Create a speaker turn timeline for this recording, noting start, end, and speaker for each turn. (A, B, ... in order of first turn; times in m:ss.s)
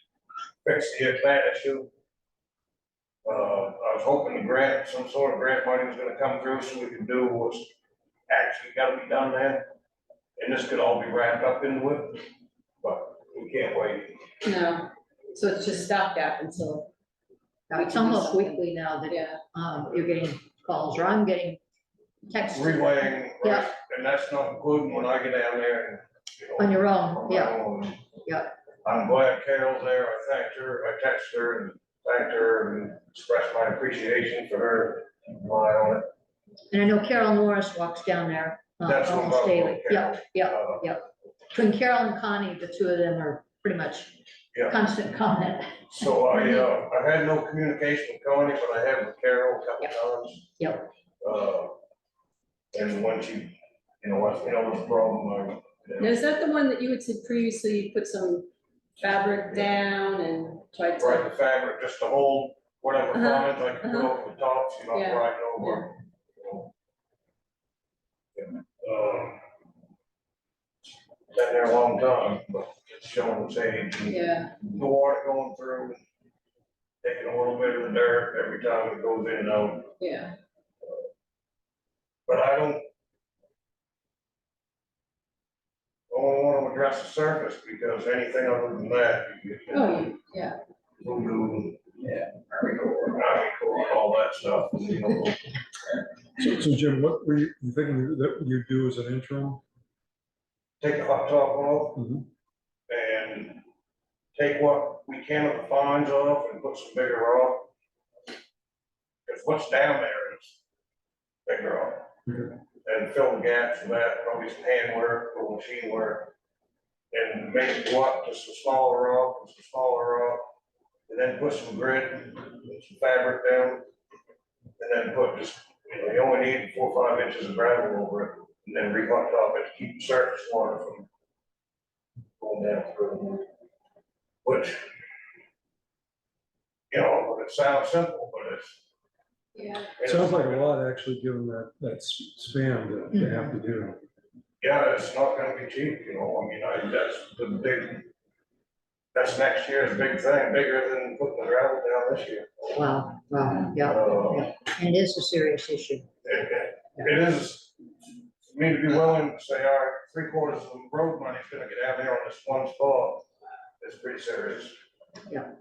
0:00.6-0:01.9 A
0:03.2-0:07.7 A
0:08.3-0:09.6 A
0:10.4-0:12.2 A
0:12.8-0:14.2 A
0:14.4-0:16.9 B
0:17.7-0:21.6 C
0:17.7-0:19.4 B
0:22.3-0:23.7 C
0:22.5-0:28.1 A
0:26.6-0:27.6 C
0:28.2-0:28.5 C
0:28.8-0:36.1 A
0:36.7-0:45.8 C
0:38.8-0:40.9 A
0:44.5-0:44.8 A
0:45.9-0:50.6 A
0:50.6-0:50.9 C
0:51.2-0:51.7 A
0:52.7-0:56.2 A
0:56.0-1:01.3 B
0:59.3-0:59.7 A
1:01.0-1:06.7 A
1:03.1-1:04.1 B
1:04.9-1:05.9 B
1:08.4-1:09.4 A
1:11.3-1:16.0 A
1:14.1-1:14.5 B
1:17.0-1:19.9 A
1:20.0-1:20.4 B
1:22.3-1:22.9 A
1:26.1-1:30.2 A
1:29.7-1:30.6 B
1:31.0-1:31.8 A
1:32.9-1:35.4 A
1:36.4-1:39.6 D
1:40.8-1:42.0 A
1:41.9-1:42.2 D
1:42.9-1:43.6 A
1:44.3-1:47.7 A
1:49.2-1:50.6 A
1:51.5-1:56.3 A
1:57.1-2:00.4 A
2:01.1-2:03.8 A
2:04.8-2:11.1 A
2:12.4-2:13.5 A
2:14.4-2:14.8 A
2:16.9-2:18.8 A
2:19.5-2:19.9 B
2:20.0-2:20.7 A
2:20.0-2:24.0 D
2:23.1-2:23.6 C
2:24.6-2:28.1 A
2:29.1-2:32.7 A
2:32.7-2:36.1 C
2:33.8-2:34.5 A
2:36.2-2:37.8 A
2:38.4-2:43.2 A
2:43.8-2:44.8 A